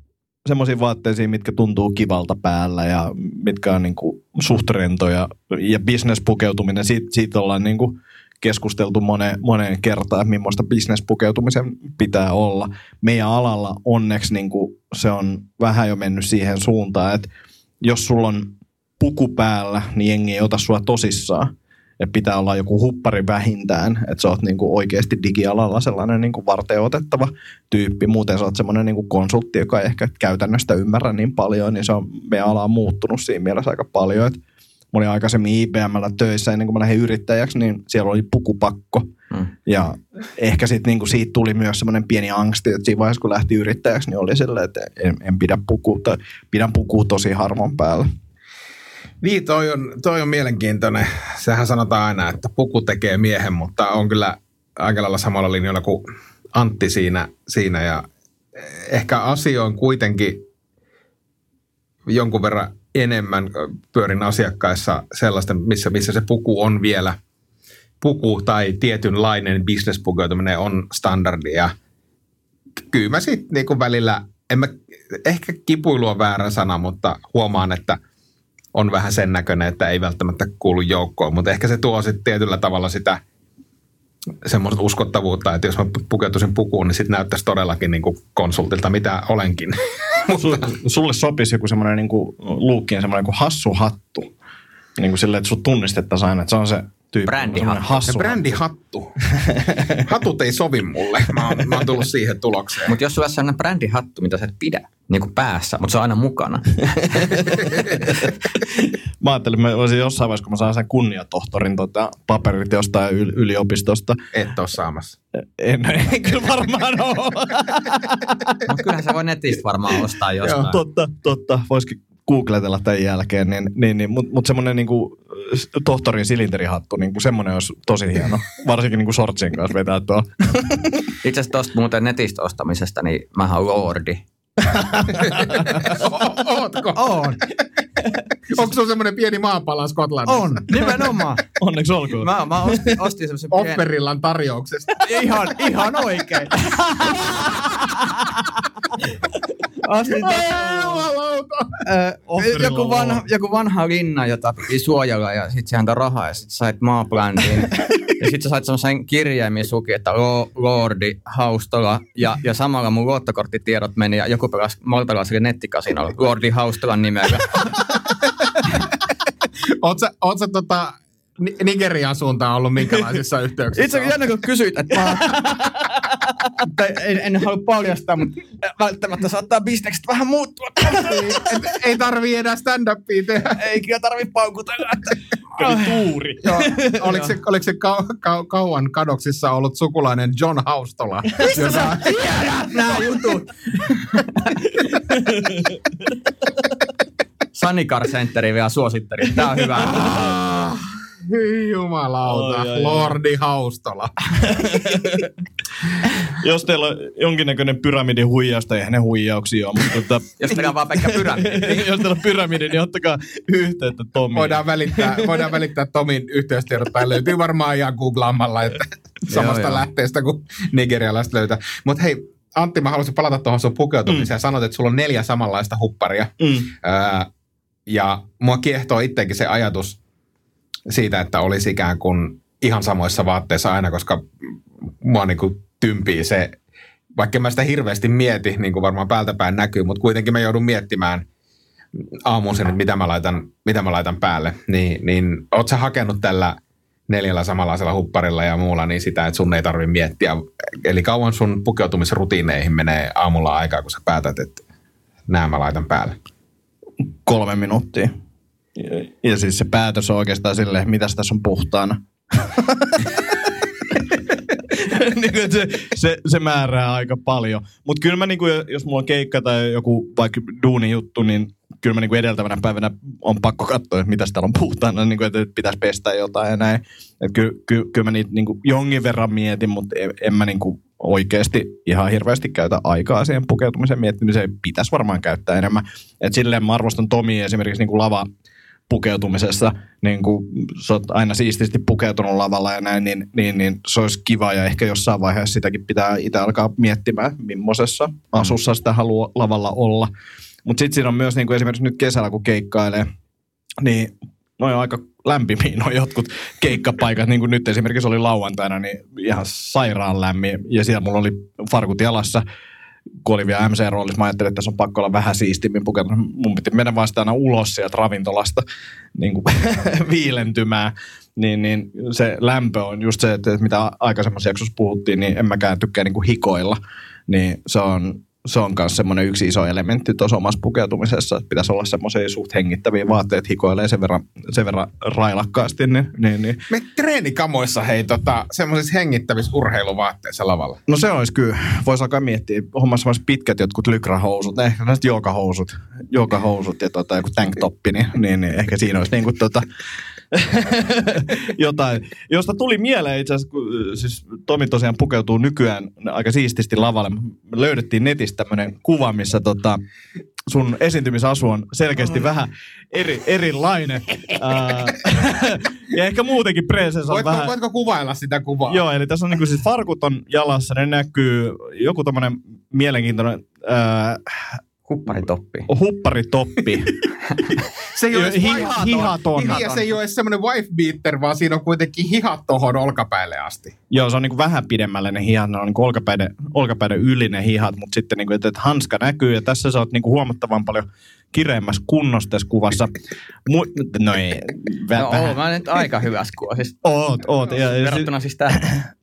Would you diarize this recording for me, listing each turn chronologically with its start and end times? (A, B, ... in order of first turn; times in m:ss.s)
0:00.4-0:17.3 A
0:17.8-0:34.4 A
0:34.9-0:39.1 A
0:39.6-0:48.1 A
0:49.2-1:00.4 B
1:02.1-1:07.2 B
1:08.0-1:11.7 B
1:12.9-1:18.0 B
1:18.7-1:23.2 B
1:24.4-1:30.7 B
1:30.4-1:34.3 A
1:35.0-1:38.6 A
1:37.2-1:37.9 C
1:38.0-1:39.2 B
1:39.3-1:40.0 A
1:39.9-1:42.9 B
1:42.8-1:48.3 C
1:47.1-1:48.3 A
1:49.2-1:54.2 A
1:54.3-1:55.2 B
1:55.3-1:58.6 A
1:58.6-2:00.8 C
2:00.4-2:11.1 A
2:11.2-2:14.2 C
2:14.6-2:15.9 A
2:15.3-2:17.2 B
2:15.4-2:15.8 C
2:16.9-2:17.4 C
2:18.5-2:20.6 B
2:20.2-2:21.5 C
2:21.5-2:23.1 A
2:22.2-2:23.8 C
2:23.5-2:25.4 B
2:25.0-2:29.2 C
2:29.7-2:31.0 C
2:30.1-2:31.8 B
2:31.8-2:47.7 C
2:32.3-2:33.2 A
2:48.4-2:49.0 B
2:49.8-2:54.2 B
2:53.7-3:01.5 C
3:01.0-3:03.6 B
3:03.4-3:06.0 C
3:05.5-3:06.9 A
3:06.4-3:12.3 B
3:07.0-3:07.3 C
3:11.4-3:15.1 C
3:15.2-3:15.8 A
3:17.5-3:20.3 C
3:19.9-3:24.6 B
3:22.2-3:23.2 A
3:24.4-3:25.3 A
3:26.2-3:35.5 A
3:30.4-3:31.9 C
3:34.3-3:47.3 B
3:39.3-3:39.8 C
3:46.4-3:46.7 A
3:47.9-3:50.0 B
3:50.9-3:56.6 B
3:57.2-4:01.2 B
4:02.2-4:06.6 B
4:07.1-4:14.6 B
4:15.3-4:16.2 B
4:17.2-4:18.1 A
4:18.8-4:48.2 A
4:48.9-5:00.1 A
5:00.6-5:03.1 A
5:03.8-5:12.4 A
5:13.2-5:18.6 A
5:19.1-5:36.6 A
5:36.7-5:40.8 B
5:40.9-5:49.6 A
5:50.3-5:59.8 A
6:00.5-6:07.5 A
6:07.1-6:08.8 B
6:08.7-6:14.6 A
6:14.9-6:15.7 C
6:15.7-6:16.9 A
6:17.9-6:23.7 B
6:18.1-6:20.0 A
6:23.9-6:35.4 A
6:34.9-6:36.8 C
6:36.8-6:38.9 A
6:37.4-6:38.6 C